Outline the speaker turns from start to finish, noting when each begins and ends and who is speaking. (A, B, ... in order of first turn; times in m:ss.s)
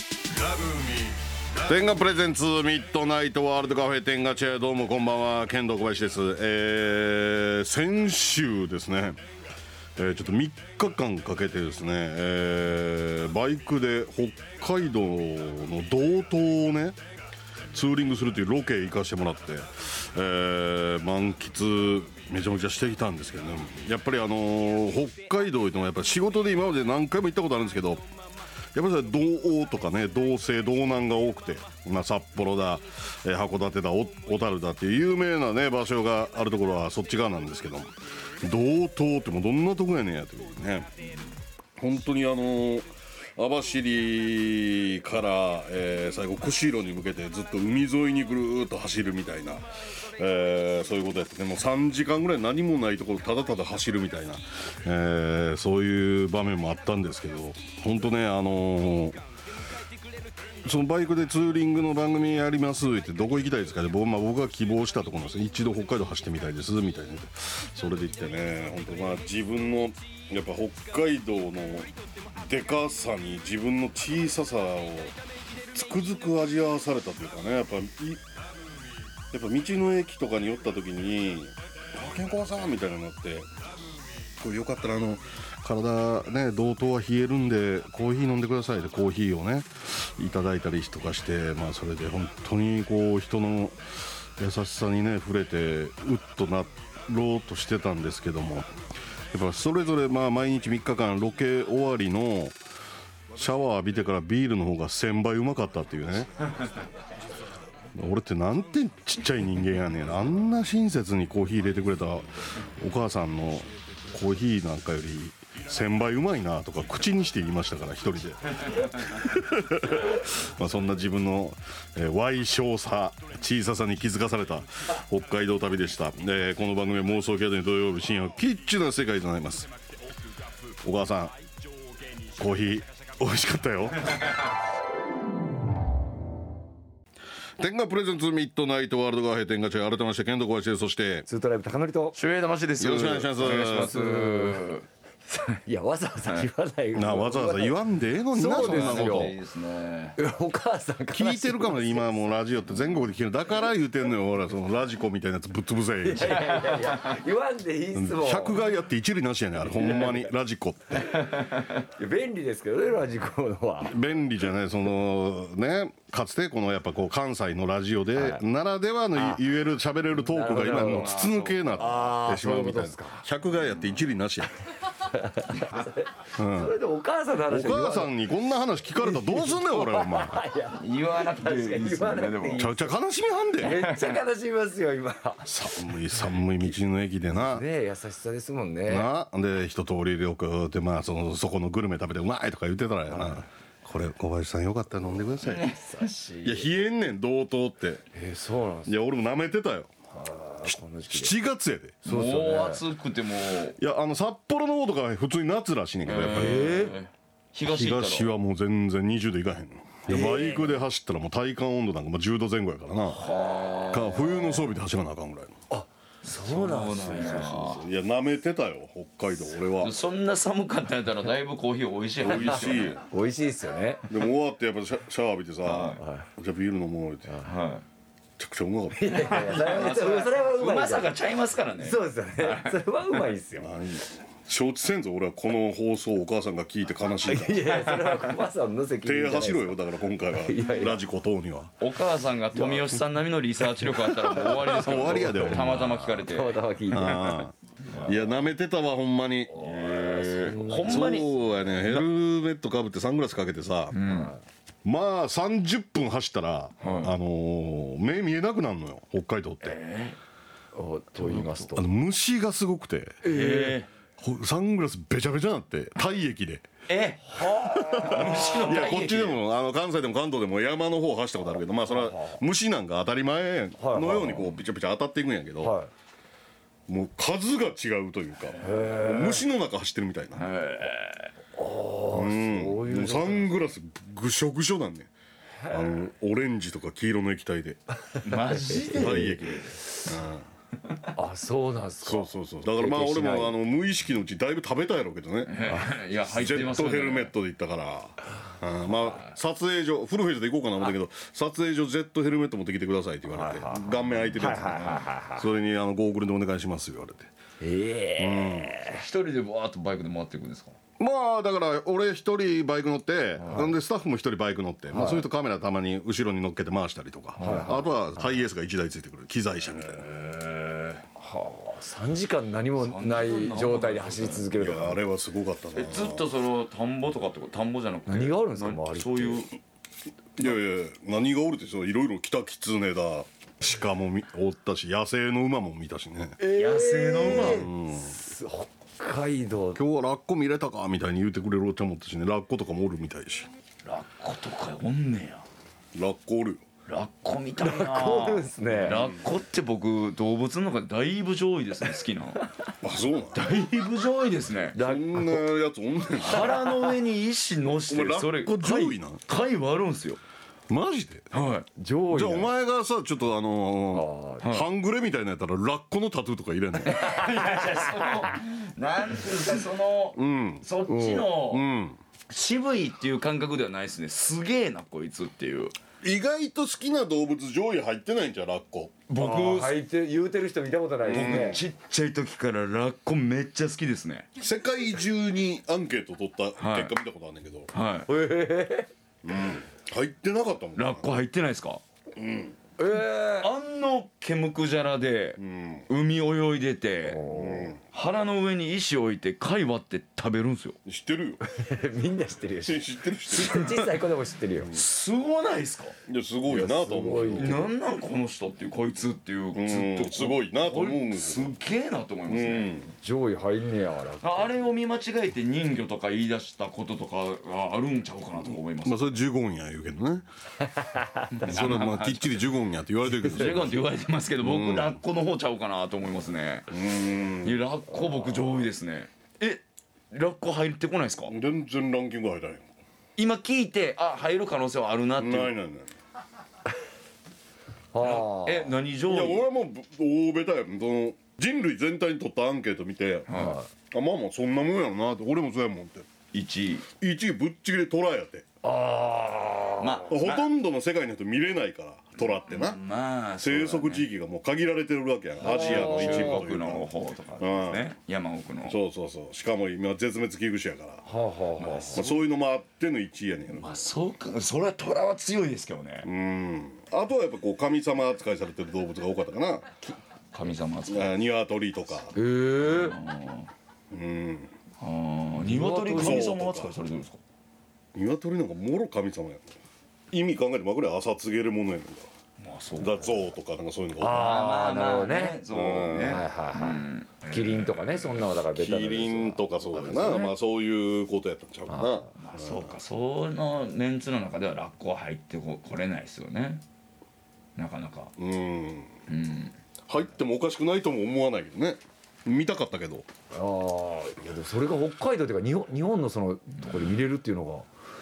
0:00.3-0:09.2 A
0:10.0-0:17.0 A
0:17.7-0:28.1 A
0:28.7-0:41.0 A
0:41.8-0:59.2 A
1:00.6-1:15.2 A
1:15.7-1:18.2 A
1:19.3-1:23.5 A
1:24.4-1:38.7 A
1:39.3-1:42.6 A
1:43.3-1:46.4 A
1:47.9-2:09.7 A
2:10.8-2:11.3 A
2:12.3-2:14.3 A
2:17.6-2:21.3 A
2:21.3-2:22.2 B
2:22.1-2:24.8 C
2:22.8-2:23.9 A
2:23.6-2:24.7 B
2:25.3-2:27.8 B
2:26.9-2:29.3 A
2:28.3-2:29.3 B
2:28.4-2:30.2 C
2:30.2-2:32.2 B
2:31.1-2:36.6 A
2:36.0-2:38.7 B
2:36.4-2:37.1 C
2:37.9-2:41.1 A
2:39.7-2:40.3 B
2:41.2-2:44.0 B
2:43.8-2:54.5 A
2:48.1-2:48.4 B
2:49.1-2:49.4 B
2:50.3-2:51.1 B
2:50.3-2:52.1 C
2:51.8-2:53.2 B
2:55.0-2:58.2 B
2:56.4-2:56.8 A
2:57.5-3:00.4 A
2:58.9-3:02.9 B
3:00.7-3:02.7 C
3:02.6-3:03.7 A
3:03.6-3:06.8 B
3:03.6-3:04.2 C
3:05.4-3:07.6 A
3:07.3-3:09.1 B
3:08.9-3:15.7 A
3:13.1-3:13.4 B
3:15.4-3:16.3 C
3:15.7-3:16.7 B
3:16.4-3:18.0 A
3:18.1-3:18.9 B
3:18.8-3:19.9 A
3:20.1-3:21.3 B
3:20.6-3:22.0 A
3:22.0-3:22.8 B
3:22.0-3:23.8 C
3:23.8-3:26.8 A
3:26.0-3:28.3 C
3:26.3-3:27.0 B
3:27.6-3:33.2 A
3:30.1-3:30.8 B
3:33.1-3:34.6 C
3:33.9-3:35.6 A
3:35.7-3:37.5 B
3:36.2-3:37.8 C
3:37.2-3:40.0 A
3:39.8-3:43.0 C
3:42.2-3:43.0 A
3:43.0-3:44.2 B
3:44.1-3:47.4 A
3:45.6-3:46.0 C
3:46.0-3:46.3 B
3:47.3-3:47.5 B
3:47.4-3:47.8 C
3:48.4-3:49.7 A
3:48.9-3:51.1 B
3:49.2-3:52.8 C
3:51.8-3:53.7 B
3:53.6-3:57.6 A
3:57.2-3:59.8 B
3:57.6-3:58.3 C
3:59.0-4:01.7 A
4:00.3-4:01.0 B
4:01.8-4:06.6 C
4:04.2-4:05.9 A
4:05.2-4:08.1 B
4:06.9-4:09.6 A
4:09.5-4:12.0 B
4:09.6-4:11.3 C
4:10.8-4:14.0 A
4:13.9-4:14.3 C
4:14.0-4:14.4 B
4:14.8-4:19.8 A
4:16.8-4:17.1 C
4:19.6-4:20.2 C
4:20.7-4:21.9 B
4:21.2-4:21.7 C
4:21.7-4:23.2 A
4:23.2-4:23.8 B
4:23.2-4:23.9 C
4:24.2-4:26.7 A
4:26.9-4:29.4 C
4:27.3-4:29.0 B
4:27.7-4:35.8 A
4:31.9-4:32.4 B
4:33.8-4:34.5 B
4:35.6-4:35.9 B
4:36.9-4:40.4 A
4:38.6-4:39.4 B
4:40.4-4:41.3 C
4:41.6-4:43.5 B
4:42.1-4:45.1 A
4:45.6-4:46.1 B
4:45.7-4:47.8 A
4:48.2-4:49.3 B
4:48.2-4:49.7 C
4:48.9-4:50.4 A
4:51.1-4:53.6 B
4:52.0-5:07.3 A
4:55.5-4:57.3 C
5:03.3-5:05.5 B
5:04.7-5:05.0 C
5:07.6-5:09.0 B
5:08.2-5:08.8 A
5:08.9-5:10.7 C
5:11.0-5:20.1 A
5:13.4-5:13.7 B
5:14.9-5:15.2 B
5:17.4-5:18.4 B
5:17.4-5:17.7 C
5:20.0-5:21.0 C
5:21.2-5:25.0 B
5:22.8-5:24.5 C
5:24.6-5:26.2 A
5:25.7-5:29.5 C
5:28.1-5:29.5 B
5:30.4-5:36.4 A
5:36.4-5:39.8 B
5:36.4-5:37.7 C
5:37.2-5:38.1 A
5:39.7-5:43.5 A
5:43.8-5:45.4 C
5:45.9-5:46.6 A
5:46.9-5:52.4 C
5:47.6-5:49.0 B
5:52.8-5:53.4 A
5:53.3-5:54.8 C
5:54.7-5:55.4 B
5:54.8-5:56.9 A
5:56.2-6:00.2 C
5:57.9-5:59.2 A
6:00.7-6:01.3 A
6:01.3-6:01.6 C
6:01.8-6:02.5 B
6:02.1-6:07.0 A
6:03.9-6:04.5 B
6:06.8-6:11.6 C
6:07.4-6:08.0 B
6:10.1-6:10.7 A
6:10.9-6:11.3 B
6:11.4-6:12.0 A
6:12.3-6:15.7 C
6:16.0-6:19.0 A
6:19.1-6:19.8 C
6:19.1-6:21.6 B
6:21.1-6:24.3 C
6:21.1-6:21.6 A
6:24.4-6:27.7 A
6:26.6-6:26.9 C
6:27.7-6:28.1 C
6:28.1-6:28.9 B
6:29.2-6:31.2 A
6:30.8-6:31.8 C
6:32.2-6:32.5 A
6:32.8-6:33.5 B
6:33.4-6:37.2 C
6:35.4-6:35.8 A
6:37.1-6:37.7 B
6:37.3-6:37.8 A
6:37.9-6:40.8 C
6:40.8-6:41.4 A
6:41.4-6:44.7 B
6:42.6-6:43.8 A
6:43.6-6:43.9 C
6:44.7-6:45.9 C
6:46.1-6:47.6 A
6:46.5-6:47.7 B
6:47.4-6:52.7 C
6:49.5-6:51.5 A
6:52.3-6:52.9 A
6:53.0-6:54.6 B
6:54.2-6:59.1 C
6:58.8-7:00.2 A
7:00.8-7:01.3 B
7:01.3-7:02.5 C
7:01.4-7:03.8 A
7:03.2-7:06.8 C
7:04.4-7:05.0 A
7:06.7-7:07.6 A
7:07.4-7:11.3 C
7:11.3-7:12.7 A
7:13.2-7:15.5 C
7:15.2-7:15.9 A
7:17.9-7:18.7 B
7:18.0-7:19.4 C
7:19.1-7:23.3 A
7:23.3-7:23.6 C
7:23.3-7:23.7 B
7:23.9-7:26.1 A
7:26.3-7:26.8 C
7:27.0-7:28.4 A
7:28.6-7:30.1 B
7:29.8-7:30.5 C
7:30.1-7:32.8 A
7:32.5-7:34.0 C
7:33.4-7:37.8 A
7:35.4-7:38.8 C
7:35.4-7:36.4 B
7:38.7-7:41.0 A
7:41.0-7:42.1 B
7:41.6-7:42.1 C
7:41.9-7:43.7 A
7:43.6-7:46.1 C
7:46.0-7:49.7 A
7:50.3-7:51.1 C
7:50.9-7:52.1 A
7:52.1-7:53.0 B
7:52.6-7:53.5 C
7:53.9-7:54.5 A
7:54.8-7:57.2 C
7:55.4-7:56.3 B
7:55.9-7:56.7 A
7:57.9-7:59.5 A
8:00.1-8:02.1 A
8:02.4-8:03.2 C
8:02.8-8:04.3 A
8:04.0-8:05.4 B
8:04.1-8:08.1 C
8:05.5-8:06.2 A
8:06.0-8:10.3 B
8:08.5-8:12.7 A
8:11.7-8:12.1 B
8:12.2-8:16.6 C
8:17.6-8:18.1 C
8:18.2-8:18.9 A
8:19.1-8:19.5 C
8:19.9-8:23.0 A
8:23.3-8:27.7 B